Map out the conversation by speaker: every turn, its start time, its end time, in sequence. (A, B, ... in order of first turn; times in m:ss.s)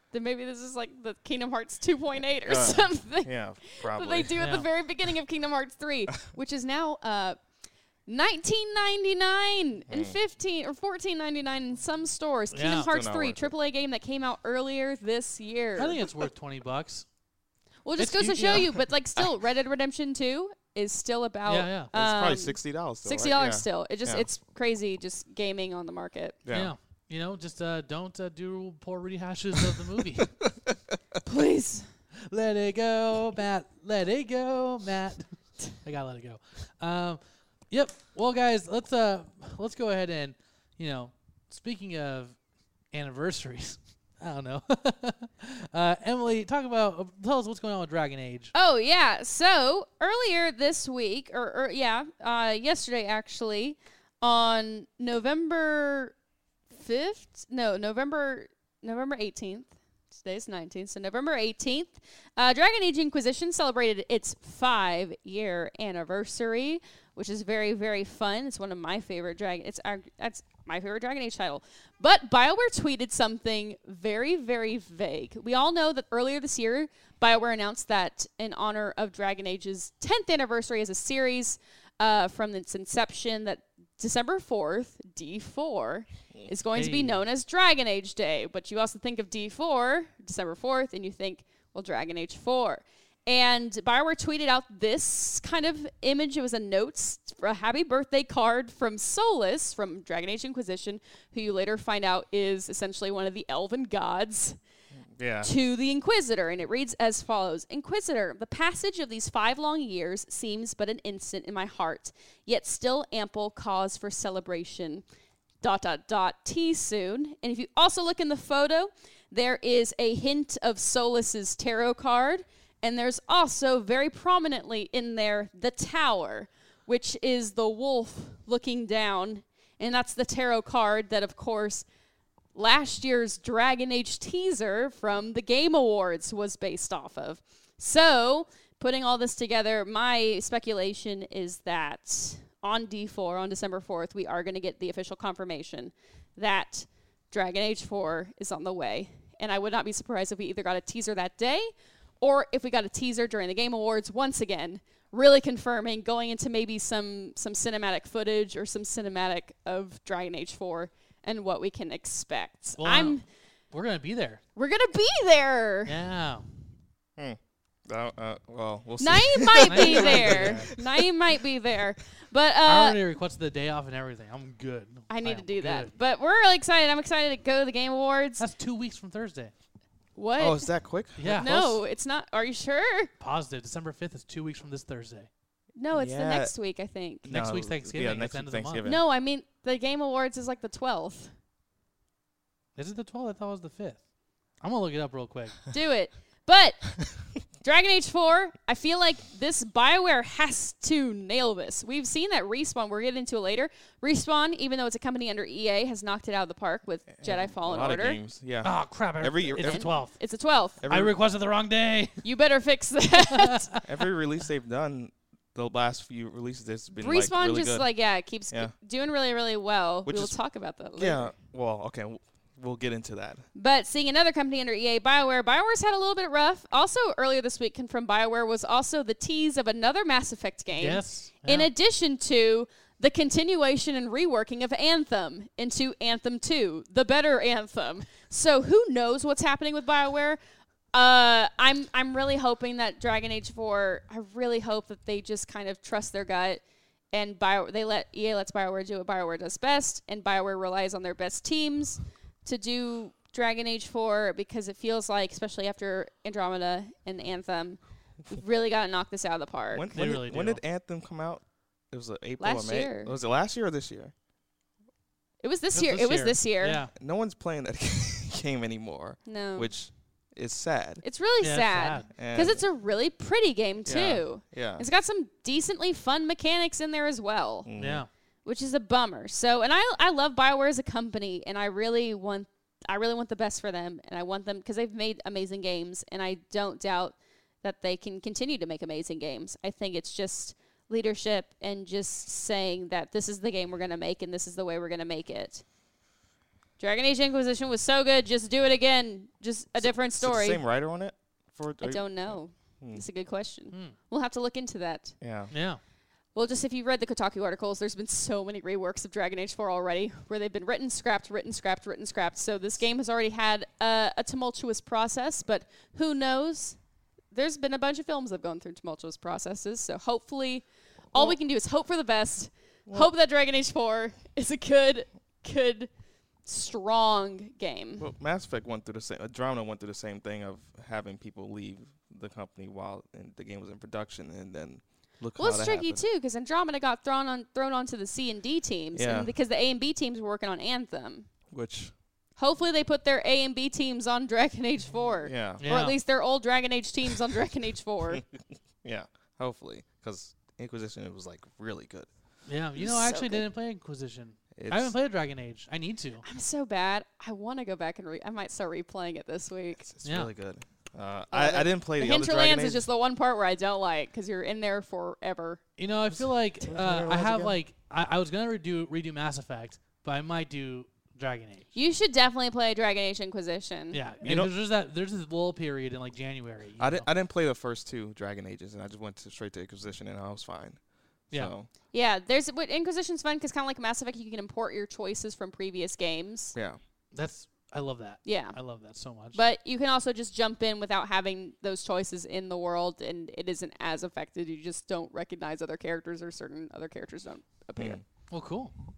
0:00.1-0:07.4 A
0:02.4-0:04.4 B
0:04.4-0:04.7 C
0:08.1-0:16.0 A
0:09.9-0:10.2 B
0:12.5-0:12.9 C
0:12.9-0:13.5 B
0:15.8-0:17.1 C
0:17.8-0:26.4 A
0:18.0-0:18.8 C
0:21.5-0:21.9 C
0:21.9-0:24.3 B
0:26.4-0:26.7 B
0:26.5-0:30.3 C
0:30.2-0:31.0 B
0:31.2-0:31.9 A
0:32.3-0:37.2 C
0:37.7-0:42.4 C
0:42.9-0:48.5 C
0:48.6-0:56.1 A
0:56.7-1:44.6 A
1:26.7-1:27.2 C
1:45.2-1:45.5 B
1:45.4-1:55.0 A
1:55.6-2:11.8 A
2:12.6-2:43.2 A
2:42.8-2:43.2 C
2:43.7-2:44.4 C
2:44.6-2:45.9 A
2:45.9-2:46.5 C
2:47.2-2:51.1 B
2:49.0-2:53.0 A
2:49.6-2:50.7 C
2:52.6-2:55.9 C
2:55.1-2:58.4 A
2:58.4-2:59.5 C
3:00.2-3:00.7 A
3:00.4-3:01.5 B
3:01.2-3:01.8 C
3:01.3-3:03.1 A
3:03.2-3:05.3 C
3:05.8-3:07.3 A
3:05.9-3:06.5 B
3:07.2-3:09.0 B
3:07.3-3:08.9 C
3:08.8-3:11.3 A
3:12.8-3:14.0 C
3:14.6-3:15.6 C
3:15.7-3:17.0 A
3:17.6-3:28.2 A
3:27.2-3:29.9 B
3:28.6-3:30.2 C
3:29.6-3:30.8 A
3:30.8-3:31.1 B
3:30.9-3:32.2 C
3:32.2-3:33.8 A
3:33.3-3:33.8 C
3:33.8-3:37.9 B
3:37.0-3:41.3 A
3:40.1-3:40.4 B
3:41.0-3:43.4 B
3:43.6-4:00.4 A
3:50.8-3:51.7 C
4:00.9-4:06.6 A
4:07.1-4:19.9 A
4:19.7-4:24.1 B
4:19.9-4:20.6 C
4:22.4-4:23.1 A
4:25.4-4:26.8 A
4:25.7-4:26.9 C
4:26.9-4:31.0 B
4:29.3-4:29.7 A
4:31.0-4:37.7 A
4:31.4-4:32.1 C
4:32.2-4:32.6 B
4:33.9-4:34.9 B
4:37.7-4:38.0 B
4:37.8-4:38.1 C
4:38.4-4:55.6 A
4:56.8-5:00.6 A
4:59.8-5:03.0 B
5:01.8-5:05.2 A
5:05.2-5:05.5 B
5:05.5-5:05.8 C
5:06.4-5:16.8 A
5:17.3-5:25.9 A
5:26.5-5:28.1 A
5:28.0-5:36.0 B
5:35.4-5:41.3 A
5:39.0-5:39.3 B
5:41.5-5:41.9 B
5:42.4-5:48.2 A
5:45.2-5:45.6 B
5:45.6-5:46.0 C
5:48.8-5:52.1 B
5:52.5-5:56.2 C
5:52.8-5:53.4 A
5:54.6-5:54.9 B
5:56.2-5:59.8 A
5:59.8-6:02.9 B
6:00.0-6:00.3 C
6:01.3-6:05.6 A
6:05.8-6:11.7 C
6:06.1-6:07.6 B
6:11.7-6:14.0 A
6:13.9-6:17.1 C
6:14.2-6:14.5 B
6:16.8-6:20.8 B
6:21.3-6:21.7 B
6:21.9-6:26.6 A
6:27.1-6:29.4 C
6:28.2-6:28.6 A
6:29.3-6:38.0 A
6:37.8-6:38.0 B
6:38.3-6:38.7 C